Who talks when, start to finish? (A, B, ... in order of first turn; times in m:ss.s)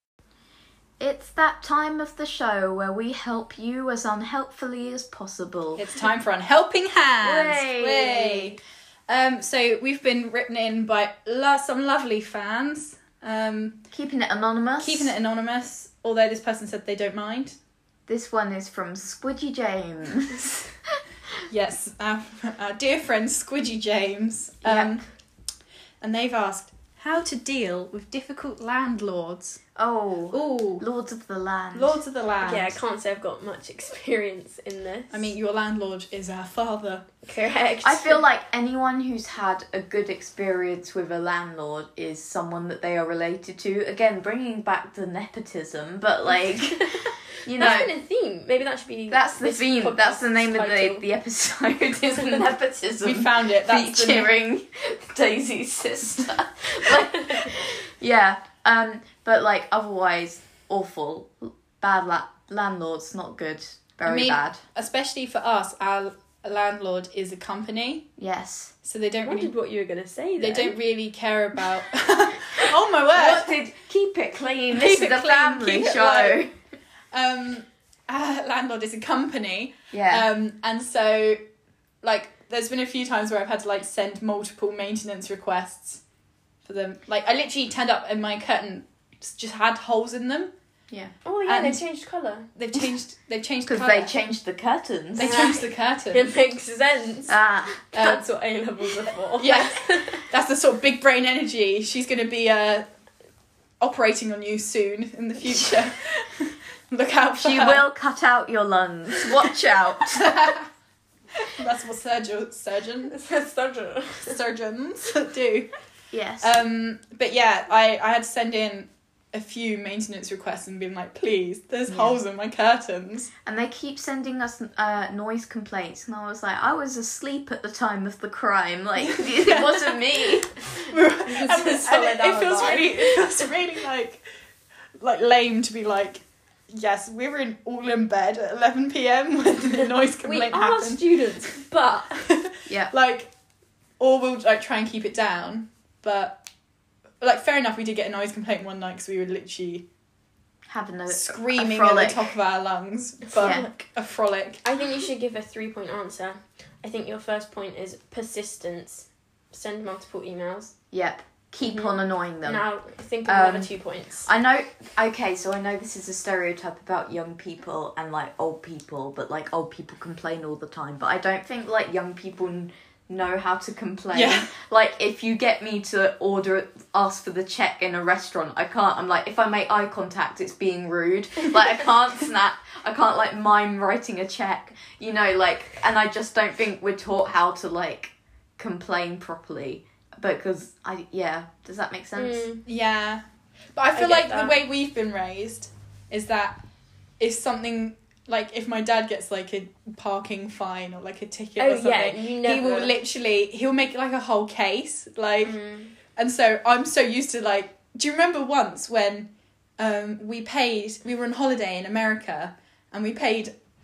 0:01.0-0:05.8 A
0:05.8-0:13.8 B
0:07.2-0:08.6 A
0:13.9-0:15.1 A
0:14.8-0:17.6 B
0:18.1-0:21.0 A
0:21.5-0:25.0 B
0:24.6-0:24.9 A
0:26.0-0:29.6 B
0:29.8-0:32.0 A
0:30.3-0:30.8 B
0:31.7-0:32.8 B
0:32.4-0:35.3 C
0:35.1-0:37.1 B
0:37.2-0:38.2 C
0:37.8-0:47.9 A
0:46.7-0:51.0 C
0:49.1-1:04.6 A
0:53.0-0:54.3 B
1:04.1-1:08.1 B
1:08.2-1:08.7 A
1:08.8-1:09.5 B
1:09.2-1:10.8 C
1:10.4-1:13.5 B
1:13.1-1:16.5 A
1:14.7-1:16.4 B
1:17.1-1:21.4 B
1:19.9-1:20.2 A
1:22.0-1:26.0 B
1:26.6-1:30.5 B
1:31.2-1:32.5 C
1:31.5-1:31.8 B
1:32.6-1:34.1 B
1:33.7-1:35.4 A
1:35.2-1:36.3 B
1:35.2-1:37.4 C
1:37.3-1:38.2 A
1:37.9-1:40.2 C
1:39.4-1:42.9 B
1:43.8-1:47.9 B
1:47.4-1:50.4 A
1:50.2-1:50.7 B
1:51.4-1:53.2 B
1:53.1-1:54.4 C
1:54.2-1:55.7 B
1:56.1-1:56.6 A
1:56.4-2:03.3 B
2:01.9-2:02.2 A
2:03.4-2:10.5 A
2:09.1-2:10.0 B
2:10.8-2:13.5 C
2:10.9-2:14.2 B
2:15.0-2:21.5 B
2:19.7-2:22.2 C
2:22.2-2:23.3 B
2:24.0-2:26.4 B
2:27.2-2:29.9 B
2:30.7-2:32.4 A
2:31.1-2:34.6 B
2:33.4-2:33.7 A
2:33.4-2:33.8 C
2:34.6-2:40.7 C
2:40.9-2:42.7 A
2:41.6-2:44.3 C
2:43.2-3:12.4 A
2:54.1-2:54.5 B
3:12.2-3:12.6 C
3:12.7-3:13.2 B
3:13.8-3:16.6 B
3:13.9-3:14.6 C
3:17.2-3:33.5 B
3:21.6-3:23.0 C
3:25.4-3:25.9 C